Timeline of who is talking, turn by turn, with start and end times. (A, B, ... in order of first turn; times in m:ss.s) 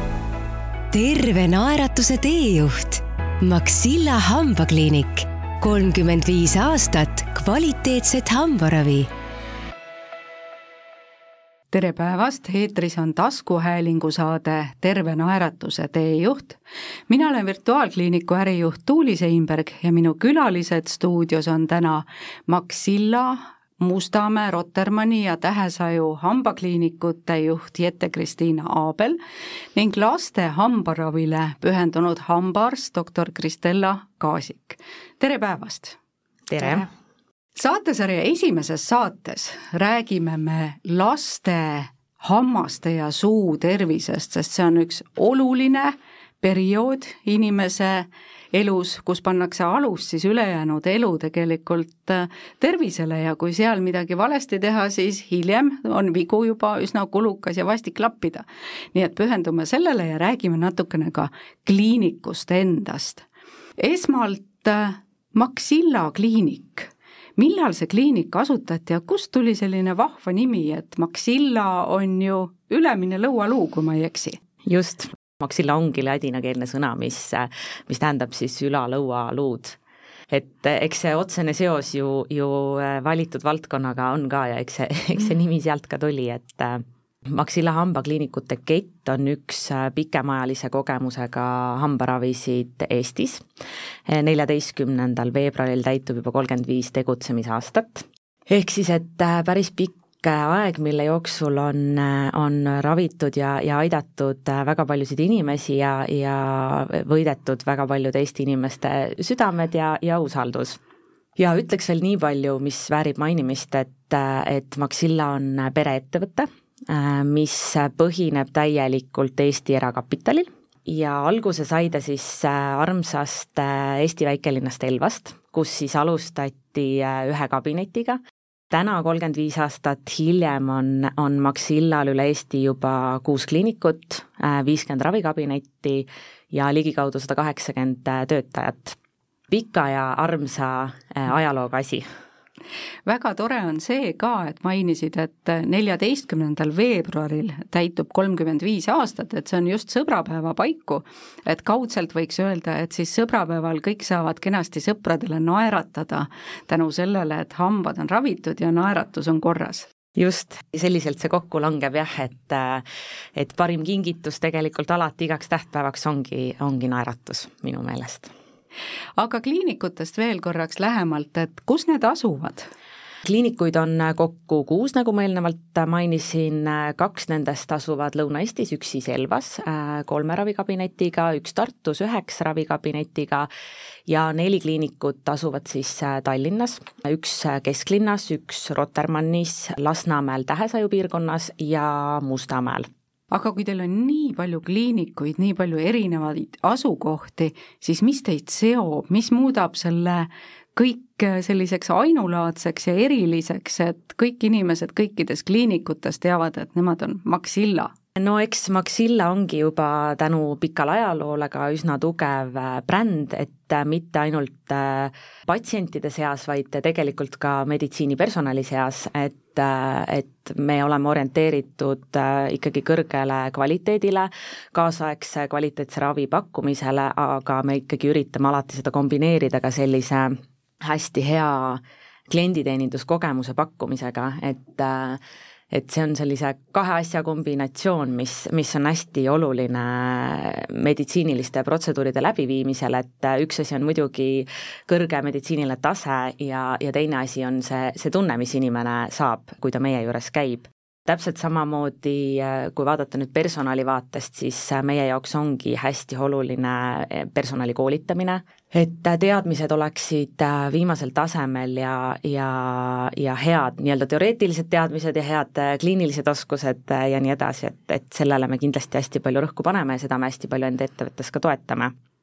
0:00.9-0:09.1 A
0:11.7-0:29.2 B
0:29.7-0:36.0 B
0:36.5-0:36.9 C
0:37.6-1:03.2 B
1:03.8-1:14.4 B
1:14.7-1:19.8 C
1:20.3-1:33.4 C
1:34.1-1:50.8 C
1:51.4-2:08.2 C
2:08.7-2:19.0 C
2:19.5-2:22.0 C
2:23.0-2:39.9 B
2:40.2-2:42.8 C
2:43.4-2:48.3 C
2:49.2-2:52.7 B
2:53.2-3:03.5 C
3:04.1-3:12.9 C
3:13.3-3:27.9 B
3:28.2-3:55.2 C
3:55.7-4:31.9 C